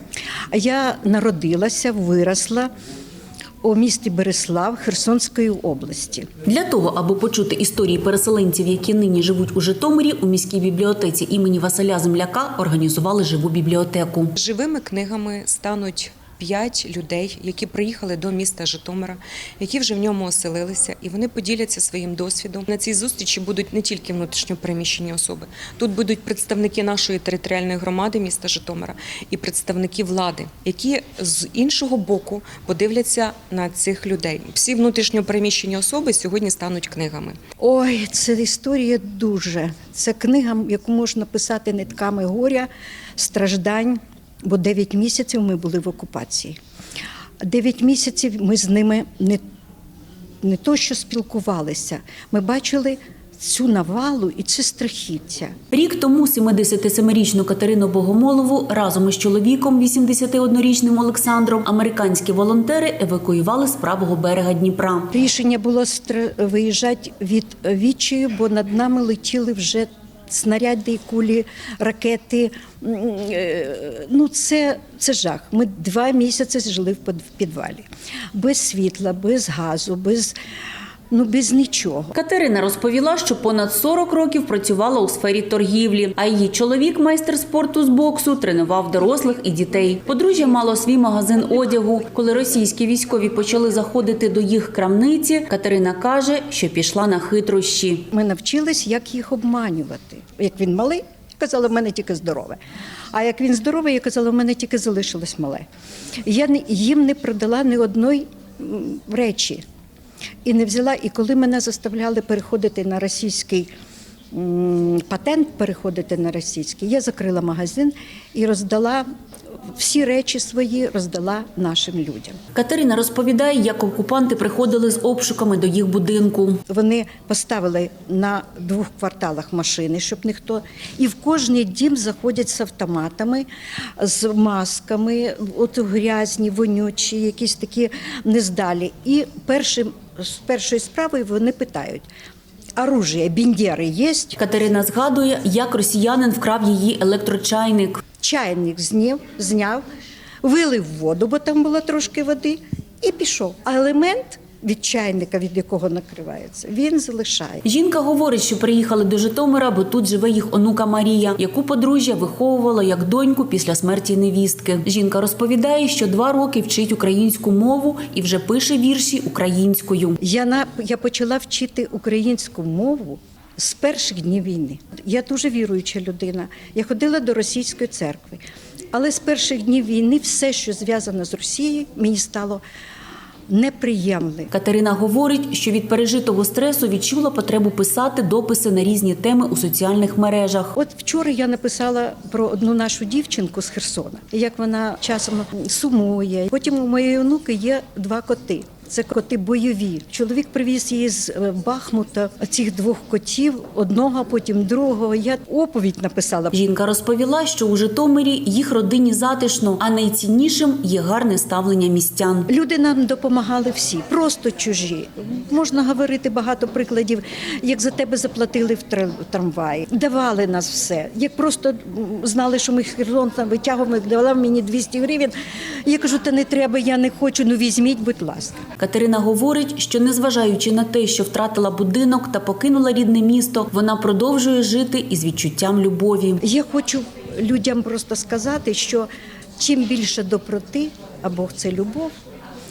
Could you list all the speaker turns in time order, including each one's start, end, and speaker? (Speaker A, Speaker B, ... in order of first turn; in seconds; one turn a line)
Speaker A: 0.5-2.7
Speaker A: 3.6-6.3
Speaker B: 6.5-14.3
Speaker C: 14.4-37.4
Speaker A: 37.6-46.6
Speaker A: 47.4-49.4
Speaker A: 50.4-55.5
Speaker B: 55.7-65.1
Speaker A: 65.1-80.3
Speaker A: 81.1-82.1
Speaker B: 82.1-98.1
Speaker A: 98.1-102.6
Speaker A: 103.1-105.7
Speaker A: 106.2-109.6
Speaker A: 110.4-113.7
Speaker A: 114.3-119.0
Speaker A: 119.7-122.4
Speaker B: 122.5-126.6
Speaker A: 126.7-142.0
Speaker A: 142.8-144.4
Speaker B: 144.4-148.0
Speaker A: 148.2-149.8
Speaker A: 150.4-157.6
Speaker B: 157.6-170.2
Speaker A: 170.2-178.4
Speaker A: 178.9-182.6
Speaker A: 183.5-184.5
Speaker B: 184.5-190.7
Speaker A: 190.8-206.6
Speaker B: 206.5-212.5
Speaker A: 212.5-225.3
Speaker A: 225.8-228.6
Speaker B: 228.8-236.4
Speaker A: 236.4-242.1